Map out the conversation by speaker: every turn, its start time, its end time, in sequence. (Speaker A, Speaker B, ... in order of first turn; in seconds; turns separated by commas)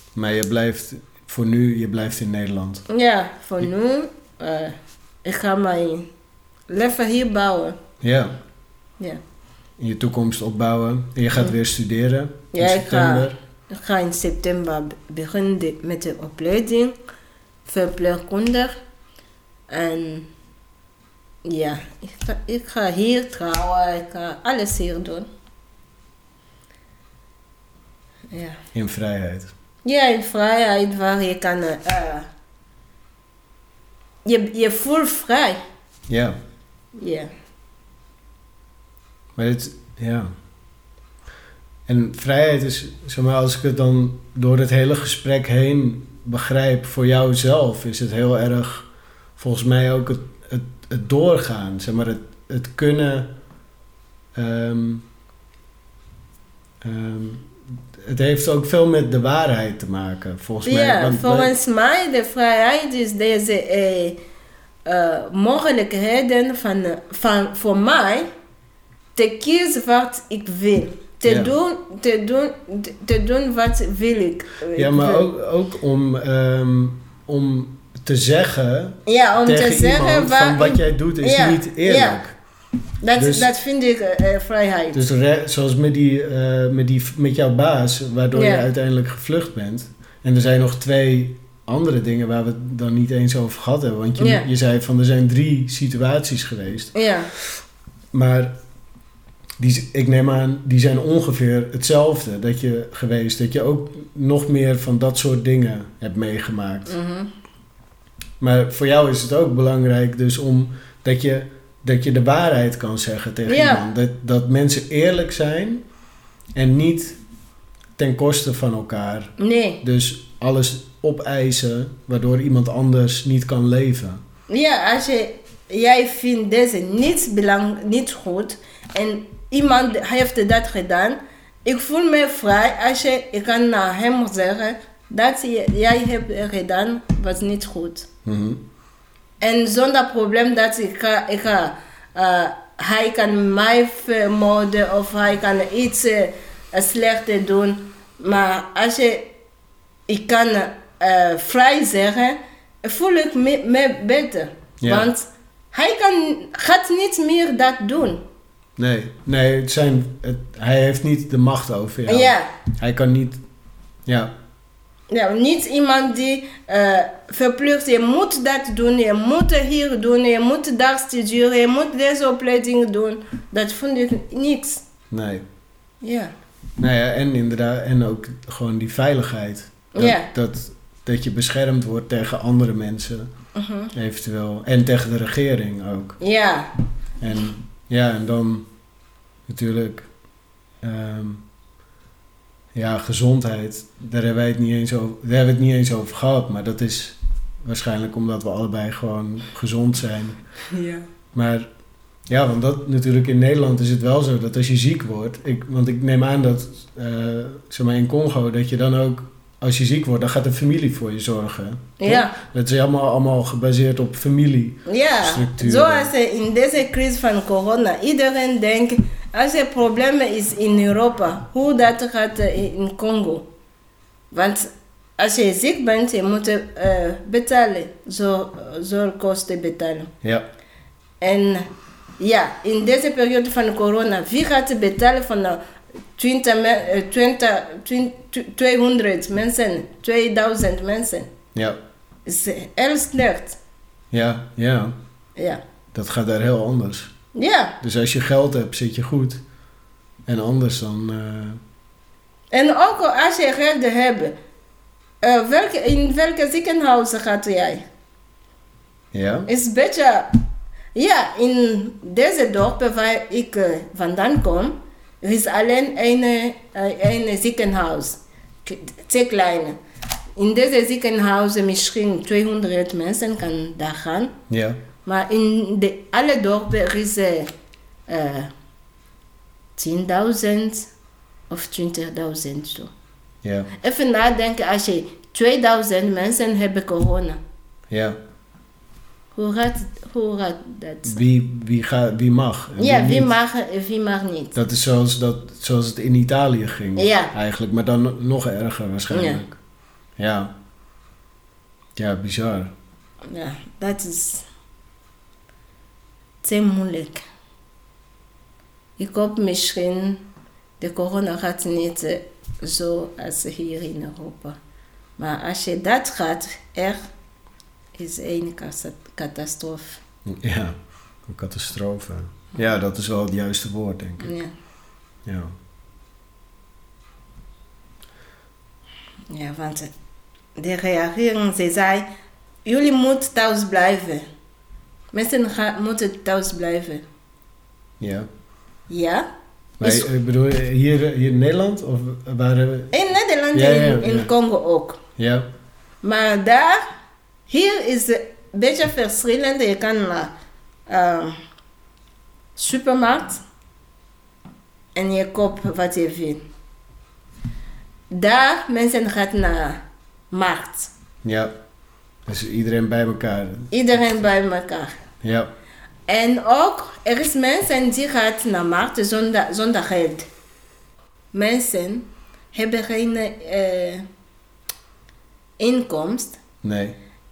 Speaker A: 0.1-2.8, Speaker B: 2.9-6.1, Speaker B: 6.7-7.8, Speaker A: 8.0-8.3, Speaker A: 9.8-13.3, Speaker B: 12.5-16.9, Speaker B: 17.6-18.7, Speaker B: 19.7-20.3, Speaker B: 21.4-25.3, Speaker B: 28.3-28.6, Speaker A: 28.7-29.5, Speaker B: 29.8-32.3, Speaker B: 34.2-35.6, Speaker A: 36.1-36.4, Speaker B: 37.0-37.3, Speaker A: 39.4-40.3, Speaker A: 41.9-53.3, Speaker A: 54.3-55.0, Speaker A: 56.8-61.5, Speaker B: 60.6-64.2, Speaker B: 64.8-68.3, Speaker B: 69.2-75.3, Speaker A: 71.2-71.5, Speaker A: 74.7-82.3, Speaker B: 79.0-82.2, Speaker B: 83.0-85.0, Speaker A: 83.2-83.5, Speaker A: 84.9-97.5, Speaker B: 88.3-88.7, Speaker B: 94.2-94.5, Speaker B: 96.9-97.3, Speaker A: 98.1-98.5, Speaker A: 99.6-107.0, Speaker B: 106.8-107.3, Speaker A: 108.4-115.8, Speaker B: 113.5-113.8, Speaker A: 116.5-117.2, Speaker A: 118.0-124.2, Speaker B: 119.4-119.8, Speaker B: 124.5-138.1, Speaker A: 138.2-138.6, Speaker B: 139.4-149.3, Speaker B: 150.1-158.2, Speaker A: 154.8-155.1, Speaker A: 158.8-163.4, Speaker B: 162.1-162.5, Speaker A: 164.1-164.3, Speaker B: 165.1-174.8, Speaker A: 175.1-175.4, Speaker B: 176.0-176.3, Speaker A: 176.8-183.3, Speaker B: 179.9-180.3, Speaker B: 183.5-183.9, Speaker A: 183.9-186.2, Speaker B: 186.2-186.7, Speaker A: 187.2-188.7, Speaker A: 189.5-190.1, Speaker A: 190.8-191.4, Speaker A: 192.7-200.4, Speaker B: 200.7-201.1, Speaker A: 201.3-201.7, Speaker A: 202.3-216.1, Speaker B: 212.0-212.3, Speaker B: 214.8-223.4, Speaker B: 224.3-230.1, Speaker B: 231.2-231.7, Speaker B: 232.2-235.6, Speaker B: 236.2-241.3, Speaker A: 241.5-241.8, Speaker B: 242.2-243.6, Speaker A: 244.1-244.9, Speaker A: 245.9-247.1, Speaker B: 247.3-247.8, Speaker A: 247.8-249.4, Speaker A: 250.3-251.6, Speaker B: 252.5-254.3, Speaker B: 255.2-257.8, Speaker A: 259.1-259.5, Speaker B: 259.5-260.3, Speaker B: 260.9-269.8, Speaker B: 270.4-274.3, Speaker A: 274.5-274.8, Speaker B: 275.1-277.5, Speaker B: 278.1-278.5, Speaker B: 279.8-280.9, Speaker B: 281.5-282.9, Speaker A: 283.4-283.7, Speaker B: 283.8-287.4, Speaker A: 287.9-288.2, Speaker B: 289.3-291.2, Speaker A: 291.1-293.3, Speaker B: 292.8-294.6, Speaker A: 294.5-299.6, Speaker B: 296.9-297.3, Speaker B: 299.1-299.4, Speaker A: 300.2-300.5, Speaker A: 301.9-302.7, Speaker B: 303.3-304.4, Speaker B: 306.4-307.2, Speaker B: 309.0-310.2, Speaker B: 310.8-314.6, Speaker B: 315.2-317.0, Speaker B: 318.0-320.0, Speaker A: 320.2-320.7, Speaker A: 321.2-324.3, Speaker B: 324.2-324.5, Speaker A: 325.2-325.5, Speaker B: 329.3-329.9, Speaker B: 330.6-332.1, Speaker B: 332.6-334.3, Speaker B: 335.1-337.0, Speaker A: 338.0-338.3, Speaker B: 338.9-339.3, Speaker A: 339.8-342.9, Speaker B: 339.8-340.1, Speaker B: 342.9-345.0, Speaker A: 343.5-344.3, Speaker A: 345.2-345.4, Speaker B: 346.0-346.8, Speaker B: 347.5-350.3, Speaker B: 350.9-351.4, Speaker B: 352.6-353.4, Speaker B: 354.9-356.4, Speaker B: 358.1-360.9, Speaker A: 361.2-361.5, Speaker A: 362.2-364.0, Speaker B: 363.7-364.9, Speaker A: 365.2-365.5, Speaker B: 366.1-370.2, Speaker B: 371.3-374.0, Speaker B: 375.6-376.4, Speaker A: 376.6-377.0